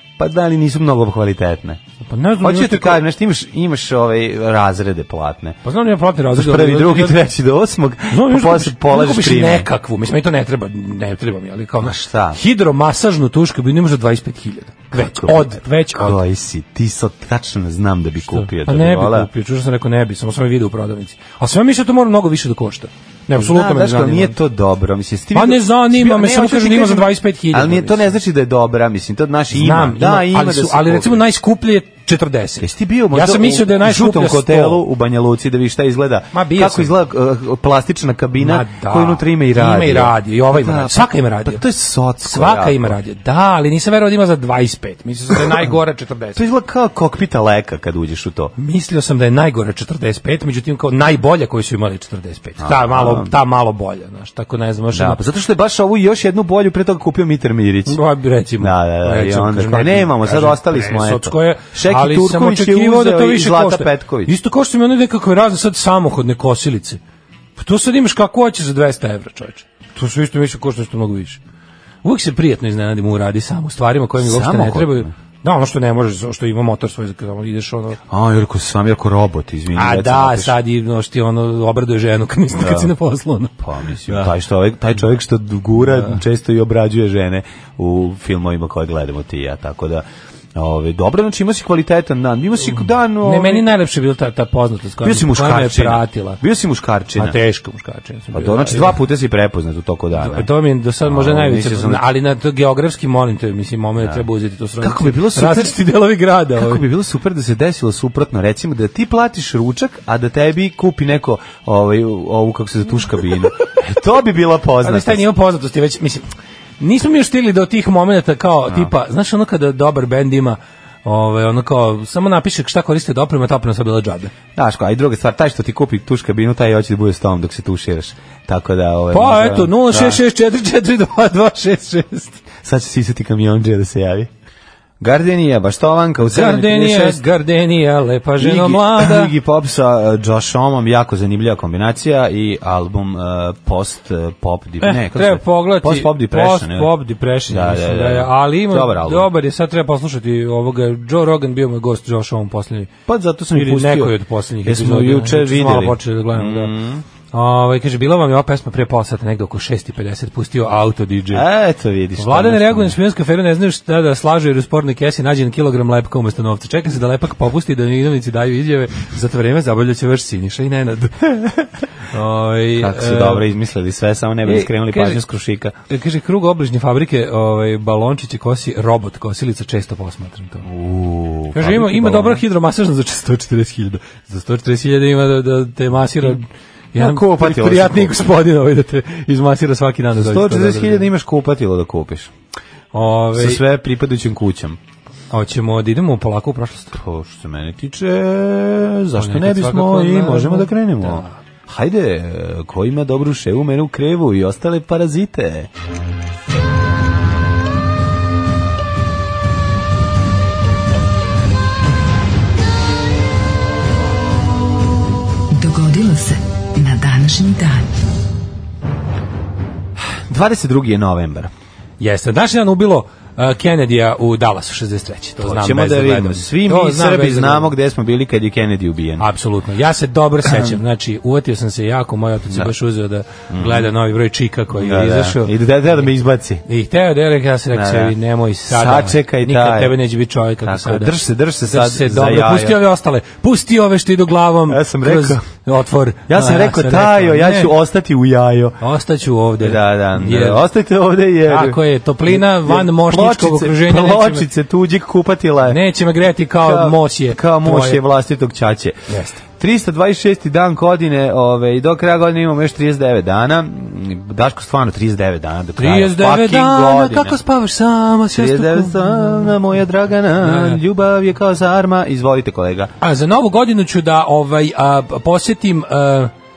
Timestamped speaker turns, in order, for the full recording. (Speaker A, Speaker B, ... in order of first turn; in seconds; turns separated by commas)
Speaker A: 0.2-1.8, Speaker B: 2.0-3.0, Speaker A: 2.4-5.6, Speaker B: 5.6-7.2, Speaker A: 6.3-9.7, Speaker B: 8.1-16.2, Speaker A: 11.8-12.4, Speaker A: 14.9-19.3, Speaker B: 18.3-24.4, Speaker A: 23.3-31.2, Speaker B: 25.3-28.2, Speaker B: 29.5-34.8, Speaker A: 32.6-43.0, Speaker B: 36.3-36.9, Speaker B: 38.4-41.6, Speaker B: 42.2-46.4, Speaker A: 46.4-48.5, Speaker B: 48.6-55.2, Speaker A: 52.6-53.3, Speaker A: 54.9-58.0, Speaker B: 57.9-67.0, Speaker A: 58.6-64.3, Speaker B: 67.6-71.4, Speaker B: 72.0-78.0, Speaker A: 74.2-75.1, Speaker A: 78.1-80.6, Speaker B: 79.8-84.3, Speaker A: 82.5-82.9, Speaker A: 83.6-93.7, Speaker B: 85.8-86.2, Speaker B: 93.2-96.4, Speaker A: 95.0-97.4, Speaker B: 97.2-99.0, Speaker A: 98.3-100.5, Speaker B: 100.2-106.8, Speaker A: 101.0-102.1, Speaker A: 104.0-104.2, Speaker A: 104.8-105.8, Speaker A: 106.5-115.2, Speaker B: 114.8-116.3, Speaker B: 116.8-124.3, Speaker A: 124.6-130.2, Speaker B: 129.1-132.4, Speaker A: 132.6-134.3, Speaker A: 135.0-137.2, Speaker B: 136.2-139.3, Speaker A: 138.4-146.9, Speaker B: 144.8-152.9, Speaker A: 147.5-149.3, Speaker A: 153.1-157.0, Speaker B: 153.5-156.7, Speaker B: 157.3-161.5, Speaker A: 161.3-163.0, Speaker B: 162.2-173.5, Speaker A: 172.8-175.7, Speaker B: 174.4-175.2, Speaker B: 175.9-180.7, Speaker A: 180.6-182.4, Speaker B: 181.5-191.1, Speaker A: 186.9-188.2, Speaker A: 190.2-192.3, Speaker B: 192.9-193.6, Speaker A: 193.3-194.8, Speaker B: 195.3-197.0, Speaker A: 196.9-205.7, Speaker B: 199.2-201.3, Speaker C: 215.5-217.9, Speaker A: 220.3-221.5, Speaker B: 222.0-227.7, Speaker A: 225.4-229.2, Speaker B: 229.2-235.5, Speaker A: 230.4-230.8, Speaker A: 233.5-233.9, Speaker A: 234.7-236.6, Speaker B: 236.7-247.7, Speaker A: 237.7-239.9, Speaker A: 240.6-242.8, Speaker A: 244.7-245.4, Speaker A: 246.3-248.8, Speaker B: 248.8-250.6, Speaker A: 249.6-255.8, Speaker B: 251.4-254.5, Speaker B: 255.7-258.0, Speaker A: 256.6-267.4, Speaker B: 259.1-259.4, Speaker B: 265.8-269.5, Speaker A: 268.3-272.9, Speaker B: 270.4-270.8, Speaker B: 273.0-276.3